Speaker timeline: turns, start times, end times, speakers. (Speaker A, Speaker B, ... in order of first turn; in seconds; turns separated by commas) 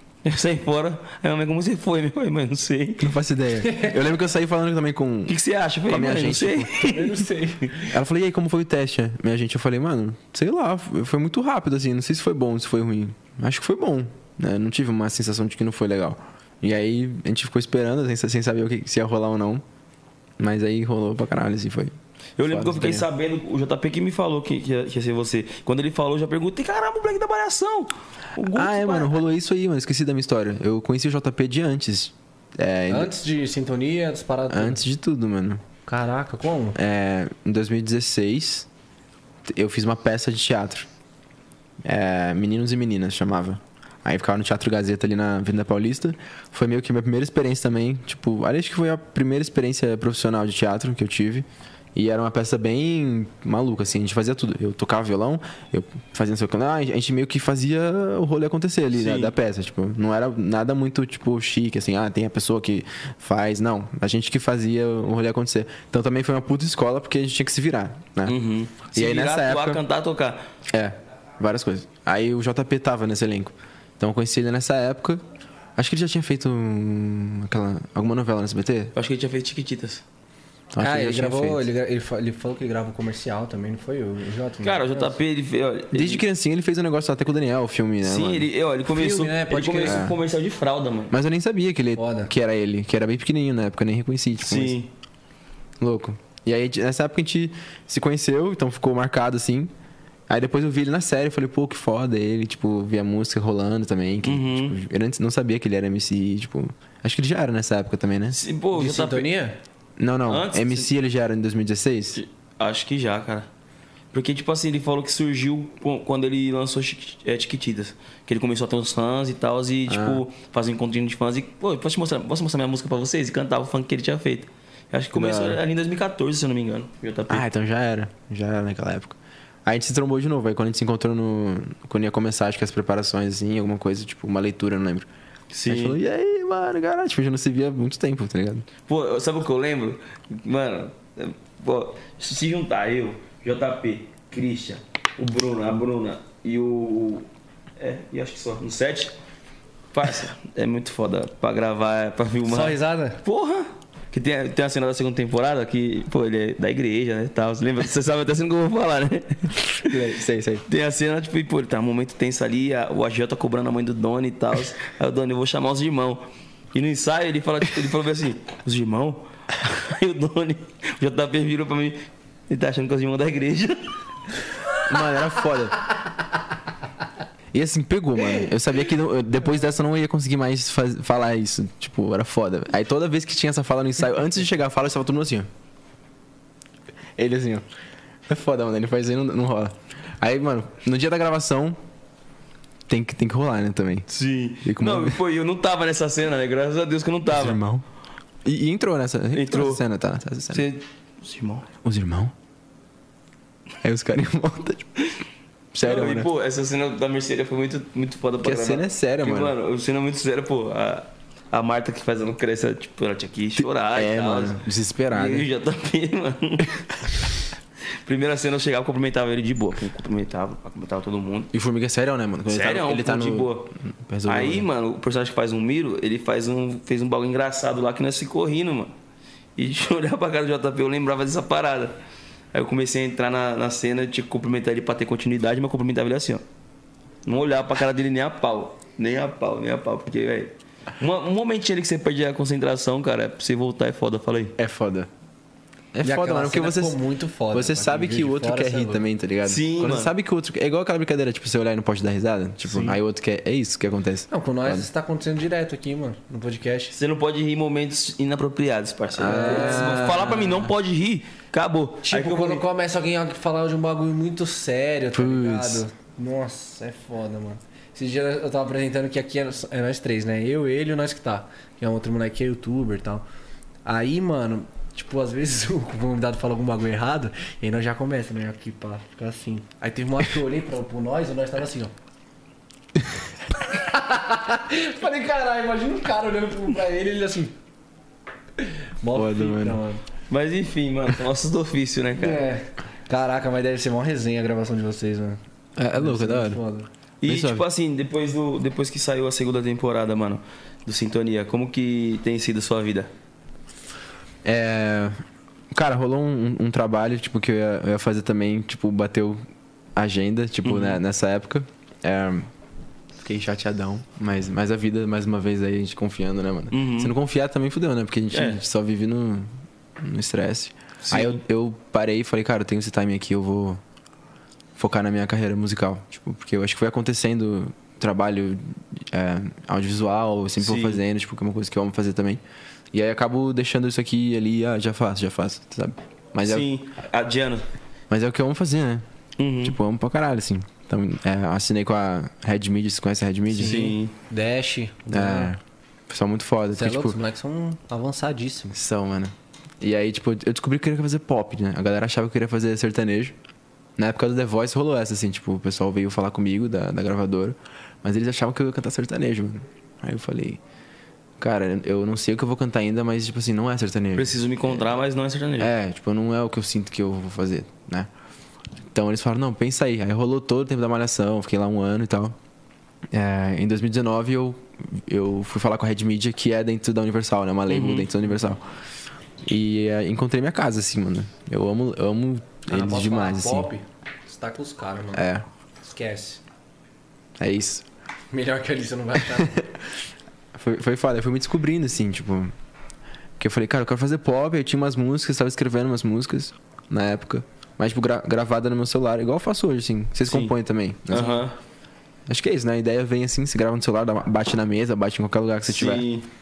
Speaker A: 0.2-3.1, Speaker B: 3.0-5.4, Speaker A: 5.3-7.3, Speaker B: 5.9-6.7, Speaker C: 6.8-8.0, Speaker B: 7.9-19.6, Speaker B: 20.4-23.1, Speaker A: 22.4-29.2, Speaker B: 28.5-33.1, Speaker C: 32.9-34.8, Speaker B: 34.5-35.6, Speaker C: 35.9-36.8, Speaker B: 36.8-38.7, Speaker B: 39.5-40.9, Speaker B: 41.8-68.4, Speaker A: 58.9-59.3, Speaker A: 68.3-70.4, Speaker B: 68.9-69.8, Speaker B: 70.7-75.2, Speaker B: 75.8-78.9, Speaker A: 79.0-80.0, Speaker B: 80.7-81.7, Speaker C: 80.8-85.2, Speaker A: 84.6-86.2, Speaker B: 85.9-88.5, Speaker A: 88.0-91.1, Speaker C: 88.9-90.0, Speaker B: 89.8-90.2, Speaker B: 91.1-94.8, Speaker C: 92.0-92.3, Speaker A: 94.4-94.9, Speaker B: 95.8-99.7, Speaker B: 100.3-108.4, Speaker A: 104.2-104.8, Speaker A: 108.3-109.3, Speaker C: 108.7-109.6, Speaker B: 110.0-112.2, Speaker A: 110.3-110.9, Speaker A: 112.2-113.5, Speaker A: 114.1-127.5, Speaker B: 119.9-120.2, Speaker B: 125.1-125.6, Speaker B: 127.3-135.1, Speaker A: 135.5-136.0, Speaker B: 135.7-138.7, Speaker A: 138.9-147.3, Speaker A: 147.8-149.2, Speaker A: 149.9-160.1, Speaker C: 152.5-153.2, Speaker B: 159.8-160.7, Speaker A: 160.7-174.0, Speaker B: 174.9-175.8, Speaker B: 177.5-185.5, Speaker B: 187.2-187.6, Speaker B: 188.3-191.8, Speaker B: 192.9-194.1, Speaker A: 194.1-197.6, Speaker B: 194.6-195.2, Speaker B: 197.3-197.8, Speaker B: 198.4-200.7, Speaker A: 199.3-199.8, Speaker A: 200.5-201.7, Speaker B: 201.8-202.3, Speaker B: 203.8-204.9, Speaker B: 205.7-206.3, Speaker A: 205.8-216.9, Speaker B: 208.4-209.6, Speaker B: 213.6-215.5, Speaker A: 217.9-221.5, Speaker B: 221.5-224.7, Speaker A: 222.5-223.7, Speaker A: 224.3-228.9, Speaker A: 229.6-232.0, Speaker A: 232.5-236.4, Speaker A: 237.3-244.6, Speaker B: 244.6-245.1, Speaker B: 245.9-254.9, Speaker C: 246.0-249.1, Speaker A: 249.4-250.1, Speaker C: 252.6-253.0, Speaker C: 254.3-256.9, Speaker A: 256.9-262.6, Speaker B: 259.1-260.7, Speaker C: 259.2-260.2, Speaker C: 262.0-273.2, Speaker B: 265.1-265.8, Speaker C: 273.9-281.9, Speaker C: 283.7-287.6, Speaker C: 288.6-290.0, Speaker B: 289.1-289.8, Speaker A: 290.3-292.4, Speaker C: 292.2-295.4, Speaker B: 295.8-296.6, Speaker C: 295.9-296.9, Speaker A: 297.2-303.1, Speaker B: 297.2-297.6, Speaker B: 304.4-305.2, Speaker B: 305.7-309.4, Speaker B: 309.9-312.5, Speaker A: 310.6-311.0, Speaker B: 313.2-323.8, Speaker A: 316.7-317.1, Speaker A: 318.3-318.6, Speaker A: 321.0-321.4, Speaker B: 324.8-336.7, Speaker A: 330.6-331.0, Speaker A: 336.4-337.6, Speaker B: 338.1-339.1, Speaker A: 339.4-339.8, Speaker B: 339.6-343.9, Speaker C: 343.5-345.5, Speaker A: 343.6-344.1, Speaker B: 345.1-347.2, Speaker C: 346.8-348.8, Speaker B: 348.7-353.4, Speaker B: 354.0-360.6, Speaker B: 361.4-364.8, Speaker A: 364.1-365.7, Speaker B: 365.6-368.1, Speaker B: 368.9-372.4, Speaker B: 373.1-378.6, Speaker A: 377.7-378.1, Speaker B: 379.4-383.7, Speaker C: 382.7-385.3, Speaker B: 385.1-385.4, Speaker C: 385.8-386.4, Speaker B: 387.4-387.9, Speaker C: 388.3-389.6, Speaker B: 389.3-389.9, Speaker B: 390.5-392.5, Speaker B: 393.4-401.5, Speaker A: 400.3-400.6, Speaker A: 401.1-401.6, Speaker B: 402.3-406.1, Speaker A: 405.7-406.3